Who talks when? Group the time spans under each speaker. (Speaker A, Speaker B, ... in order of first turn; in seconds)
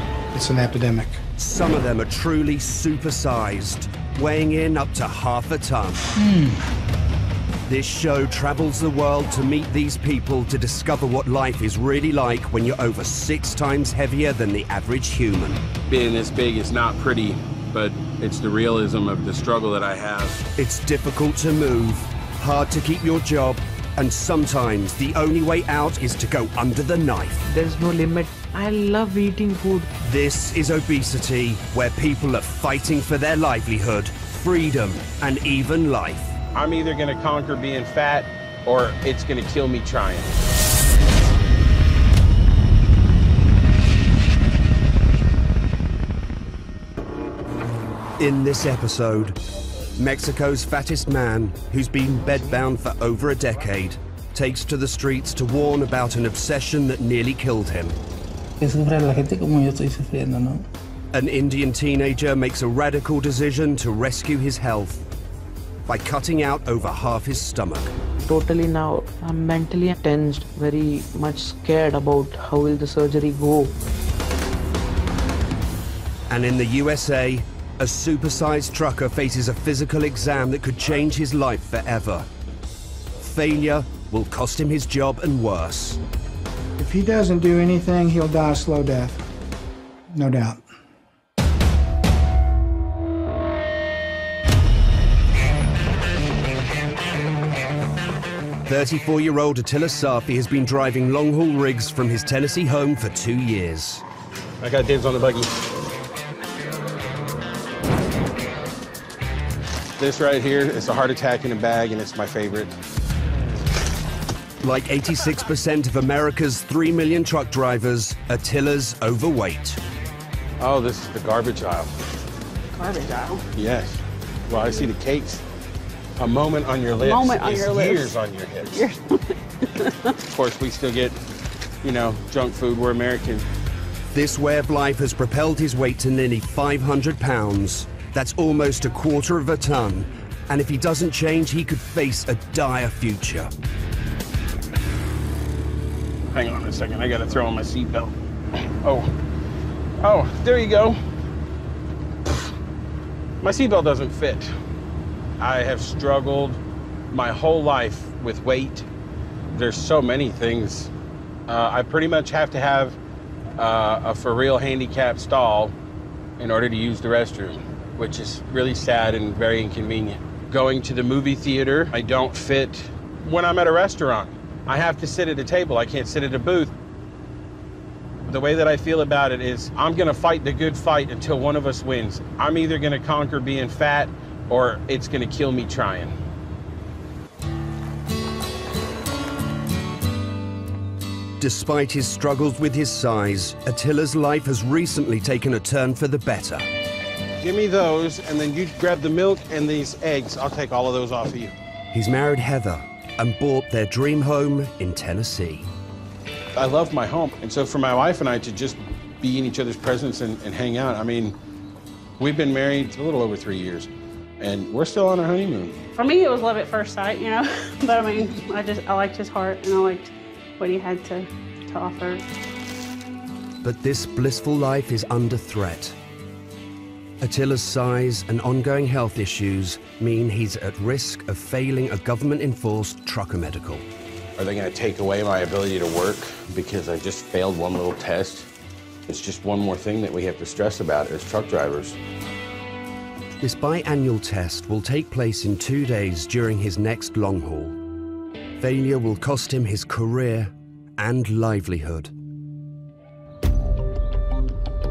Speaker A: 0.3-1.2, 86.8-89.2, 90.1-90.7
Speaker B: 1.4-6.1, 7.7-15.6, 20.6-27.4, 30.0-36.4, 48.2-49.4, 50.0-58.0, 61.1-65.0, 65.9-68.0, 76.3-82.3, 83.2-86.0, 98.7-104.0, 114.6-119.8, 134.1-143.5, 191.4-196.7, 201.9-205.7, 223.6-226.0, 227.2-233.9, 243.4-247.8, 248.6-252.1
Speaker C: 6.2-6.6, 58.6-60.7
Speaker D: 15.9-20.4, 36.5-40.4, 104.6-105.5, 110.0-112.7, 120.6-121.9, 123.5-125.4, 126.2-128.9, 130.3-131.2, 131.8-133.4, 146.3-149.1, 150.0-151.0, 153.4-154.5, 155.4-156.6, 157.1-158.9, 159.5-160.9, 161.5-163.0, 163.6-165.8, 166.4-176.7, 178.3-186.1, 197.4-201.5, 206.6-211.3, 212.2-213.9, 214.4-215.8, 234.4-238.5, 239.1-242.0
Speaker E: 27.5-29.9, 68.2-73.8
Speaker F: 122.8-123.5, 127.0-128.2, 128.7-130.2, 215.9-222.2